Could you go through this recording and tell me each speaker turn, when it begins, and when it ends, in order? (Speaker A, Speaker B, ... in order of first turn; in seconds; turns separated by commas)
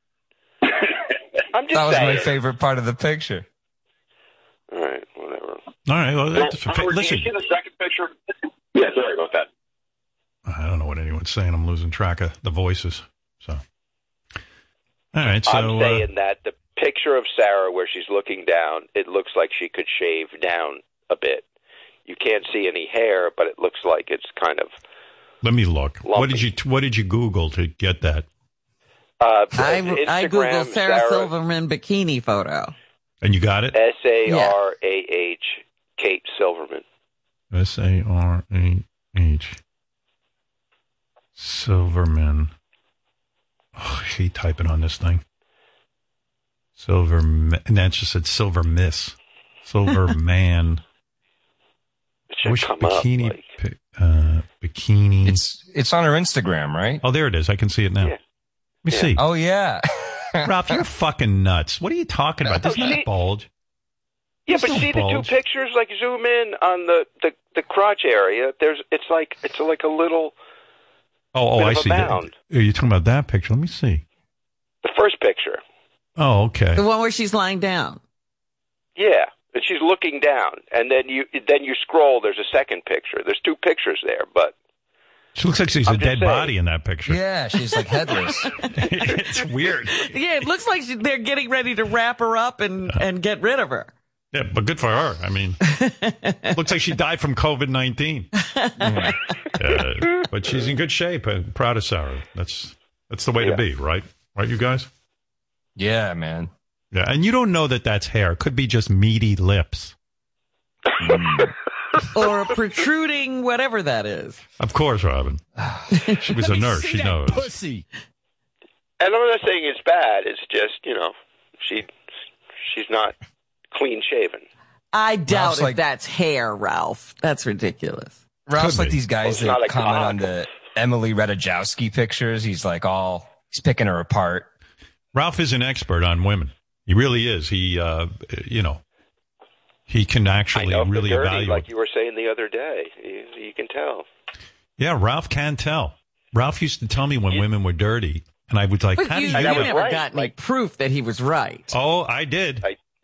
Speaker A: 1.5-2.3, Speaker B: 1.7-3.5, Speaker A: 4.7-5.6, Speaker C: 5.8-7.3, Speaker D: 6.3-8.1, Speaker D: 8.7-9.5, Speaker C: 10.4-13.6, Speaker C: 15.1-16.1, Speaker A: 15.4-21.4, Speaker A: 22.1-24.7, Speaker C: 25.4-28.3, Speaker A: 26.0-26.4, Speaker A: 29.2-31.3, Speaker E: 29.6-32.7, Speaker C: 33.2-33.8, Speaker A: 33.7-36.8, Speaker E: 34.2-34.5, Speaker C: 37.5-39.6, Speaker C: 41.4-42.5, Speaker C: 43.7-45.2, Speaker C: 46.8-50.8, Speaker A: 52.3-53.4, Speaker C: 52.4-55.4, Speaker B: 55.2-57.0, Speaker C: 57.0-58.1, Speaker C: 58.8-59.2, Speaker B: 59.2-60.8, Speaker C: 60.4-63.5, Speaker B: 62.5-62.9, Speaker A: 62.7-63.0, Speaker A: 64.5-70.3, Speaker C: 64.5-65.3, Speaker C: 71.3-74.0, Speaker A: 71.6-72.3, Speaker A: 74.8-75.6, Speaker C: 76.2-76.8, Speaker E: 76.8-78.0, Speaker A: 79.0-84.5, Speaker C: 85.3-87.2, Speaker A: 85.8-86.5, Speaker B: 87.0-88.6, Speaker C: 88.7-90.5, Speaker E: 90.0-93.9, Speaker C: 94.3-95.6, Speaker E: 95.7-96.5, Speaker C: 96.5-98.3, Speaker E: 98.4-99.1, Speaker B: 98.8-99.2, Speaker C: 99.6-104.9, Speaker B: 105.8-106.5, Speaker C: 106.9-109.9, Speaker B: 111.0-111.5, Speaker A: 111.0-111.5, Speaker E: 112.1-114.4, Speaker C: 114.6-117.5, Speaker E: 115.9-117.7, Speaker A: 119.0-121.9, Speaker A: 122.6-123.2, Speaker A: 123.7-124.4, Speaker E: 124.9-128.2, Speaker B: 125.3-125.8, Speaker B: 128.5-134.5, Speaker C: 128.6-129.0, Speaker A: 129.2-130.3, Speaker C: 135.1-138.8, Speaker C: 139.9-141.7, Speaker A: 140.5-144.1, Speaker C: 144.8-149.8, Speaker E: 149.0-151.7, Speaker A: 149.3-150.3, Speaker C: 151.7-152.6